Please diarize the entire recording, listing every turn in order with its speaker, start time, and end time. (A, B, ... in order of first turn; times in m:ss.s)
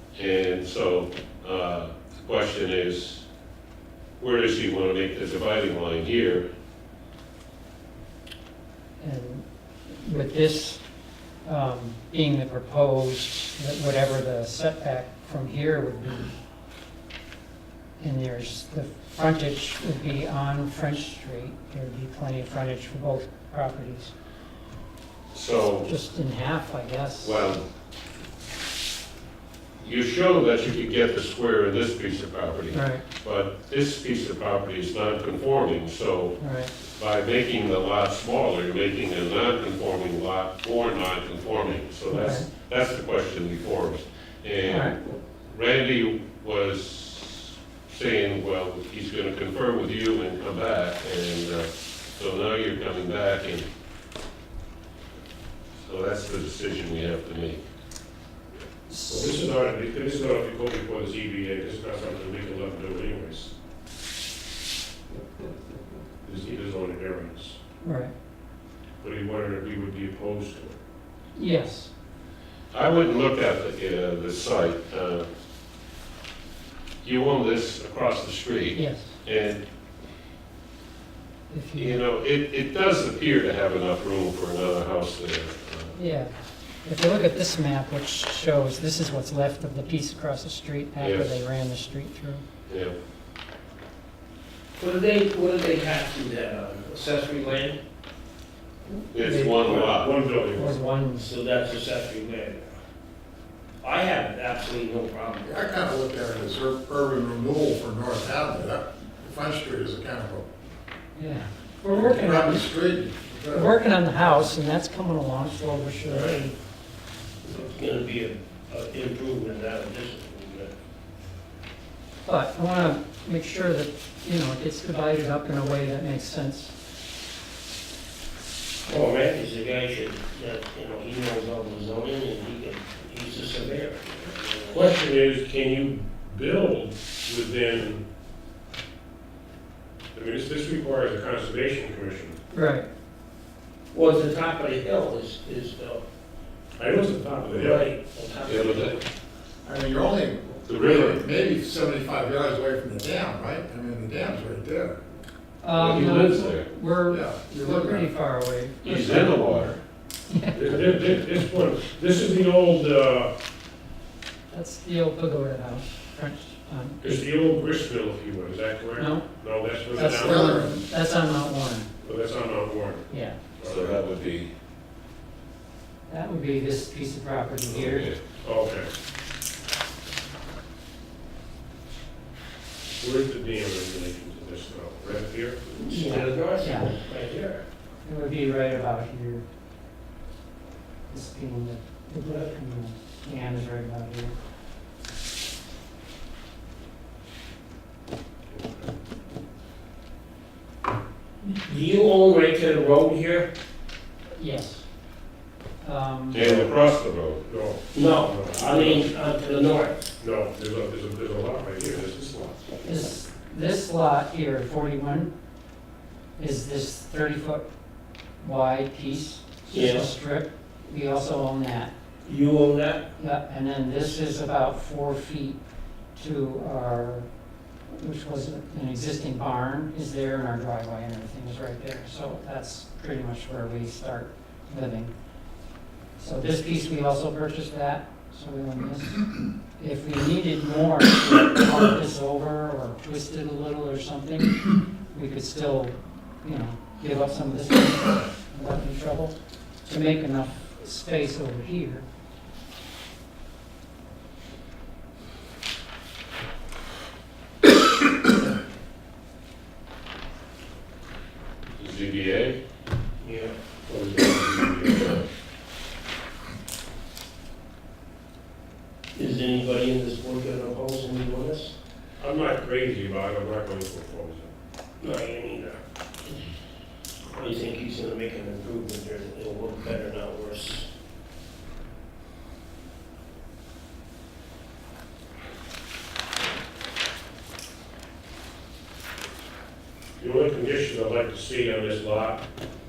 0:00.2-0:03.2 A
0:04.2-0:06.5 A
0:09.0-0:10.8 B
0:11.4-0:16.4 B
0:18.0-0:24.1 B
0:25.3-0:25.9 A
0:25.8-0:27.4 B
0:27.2-0:27.6 A
0:29.8-0:36.4 A
0:32.7-0:33.0 B
0:36.4-0:36.7 B
0:36.9-0:53.7 A
0:42.1-0:42.4 B
0:44.7-0:44.9 B
0:55.8-0:57.6 A
0:58.9-0:59.4 B
0:59.1-1:03.5 C
1:06.2-1:07.6 C
1:07.8-1:08.1 B
1:09.0-1:10.8 C
1:11.4-1:11.9 B
1:12.7-1:15.3 A
1:17.0-1:19.6 A
1:18.7-1:19.1 B
1:21.5-1:22.0 B
1:21.8-1:26.0 A
1:26.0-1:26.3 B
1:26.8-1:32.4 B
1:31.0-1:31.3 A
1:32.7-1:32.9 A
1:34.8-1:37.8 D
1:38.9-1:39.6 B
1:39.1-1:40.1 A
1:39.6-1:40.7 C
1:40.5-1:41.3 B
1:41.1-1:42.7 D
1:43.8-1:45.6 D
1:45.4-1:50.5 E
1:51.2-1:52.7 B
1:51.9-1:53.7 E
1:53.5-1:56.5 B
1:56.0-1:56.4 D
1:57.4-2:00.7 D
2:02.2-2:06.7 B
2:08.8-2:14.9 D
2:14.6-2:18.0 C
2:20.1-2:22.4 C
2:22.5-2:22.9 B
2:23.9-2:26.0 D
2:26.8-2:27.9 C
2:27.6-2:29.0 D
2:28.4-2:28.9 A
2:29.6-2:35.0 E
2:30.6-2:31.2 A
2:35.6-2:39.7 B
2:35.7-2:36.7 A
2:37.1-2:38.1 E
2:38.8-2:39.8 A
2:40.3-2:40.8 B
2:40.5-2:43.3 C
2:44.5-2:47.2 B
2:47.0-2:50.5 C
2:48.9-2:49.3 B
2:49.9-2:51.9 B
2:50.1-2:50.8 E
2:52.0-2:54.0 C
2:53.1-2:53.4 B
2:53.6-2:54.5 A
2:56.1-2:58.1 B
2:57.7-2:58.2 A
2:58.4-2:58.9 C
3:03.0-3:05.7 C
3:05.7-3:07.6 D
3:05.9-3:06.9 B
3:08.0-3:09.4 B
3:11.1-3:14.3 B
3:18.5-3:18.9 C
3:21.6-3:23.5 D
3:24.4-3:24.8 B
3:25.8-3:26.4 B
3:26.3-3:27.4 A
3:26.3-3:26.7 C
3:27.4-3:29.1 C
3:27.9-3:30.0 D
3:30.2-3:32.6 C
3:32.8-3:35.3 B
3:36.4-3:37.6 B
3:38.4-3:41.9 B
3:39.7-3:40.1 D
3:42.2-3:43.1 D
3:43.2-3:45.6 B
3:46.1-3:47.3 B
3:47.9-3:55.1 B
3:56.2-4:12.0 B
4:21.8-4:22.6 A
4:23.2-4:23.5 D
4:23.8-4:25.2 C
4:29.1-4:31.7 D
4:32.2-4:34.5 C
4:35.0-4:36.4 D
4:37.3-4:40.9 D
4:50.2-4:52.4 C